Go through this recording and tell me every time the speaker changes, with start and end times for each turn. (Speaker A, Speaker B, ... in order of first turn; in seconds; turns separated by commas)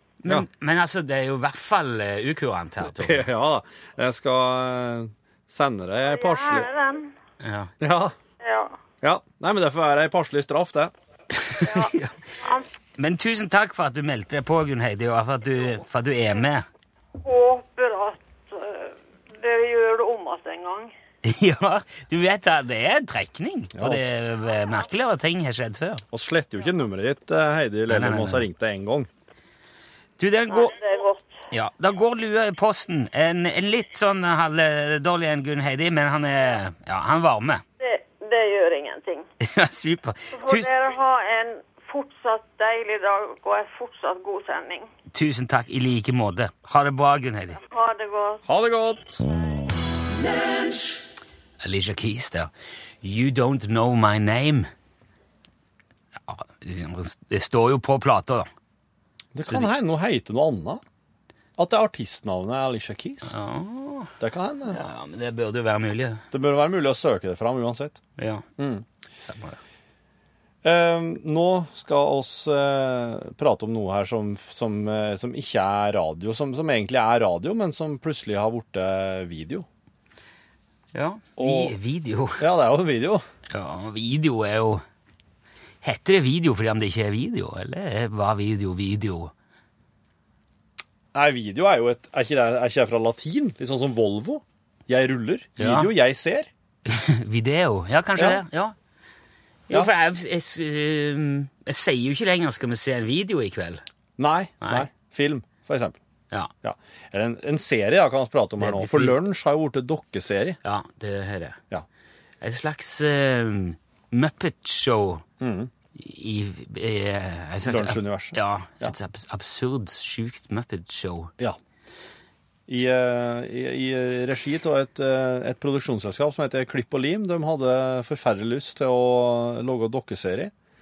Speaker A: 0.2-3.2, Speaker B: 2.9-6.7, Speaker C: 6.0-7.1, Speaker A: 7.4-7.7, Speaker B: 7.8-8.1, Speaker C: 8.4-8.8, Speaker B: 9.0-10.9, Speaker A: 11.4-12.1, Speaker C: 11.6-12.7, Speaker A: 13.0-16.6, Speaker C: 17.2-20.9, Speaker A: 21.2-26.0, Speaker B: 23.7-24.1, Speaker B: 26.1-29.1, Speaker A: 27.9-28.4, Speaker A: 30.2-30.8, Speaker C: 30.5-31.3, Speaker A: 31.5-37.6, Speaker C: 37.8-39.3, Speaker A: 39.4-40.7, Speaker C: 40.3-44.9, Speaker A: 45.1-47.6, Speaker C: 47.6-48.5, Speaker B: 48.5-49.2, Speaker A: 51.6-52.5, Speaker A: 53.0-54.7, Speaker A: 56.2-58.5, Speaker B: 59.3-60.8, Speaker B: 61.6-63.3, Speaker A: 63.2-64.1, Speaker B: 64.2-64.8, Speaker A: 64.7-66.2, Speaker B: 66.3-68.0, Speaker A: 68.2-68.5, Speaker B: 68.6-68.8, Speaker A: 69.2-69.6, Speaker B: 70.6-79.7, Speaker A: 80.9-82.4, Speaker B: 81.4-81.7, Speaker B: 82.4-83.2, Speaker A: 83.5-84.8, Speaker A: 85.8-89.3, Speaker B: 91.1-96.5, Speaker A: 95.6-95.9, Speaker A: 96.8-98.7, Speaker A: 99.7-103.8, Speaker B: 104.2-106.0, Speaker A: 104.6-104.9, Speaker B: 106.6-110.6, Speaker A: 108.6-109.2, Speaker A: 110.6-111.6, Speaker A: 112.4-115.2, Speaker B: 115.4-115.7, Speaker A: 115.9-121.3, Speaker B: 117.6-119.0, Speaker B: 122.7-130.5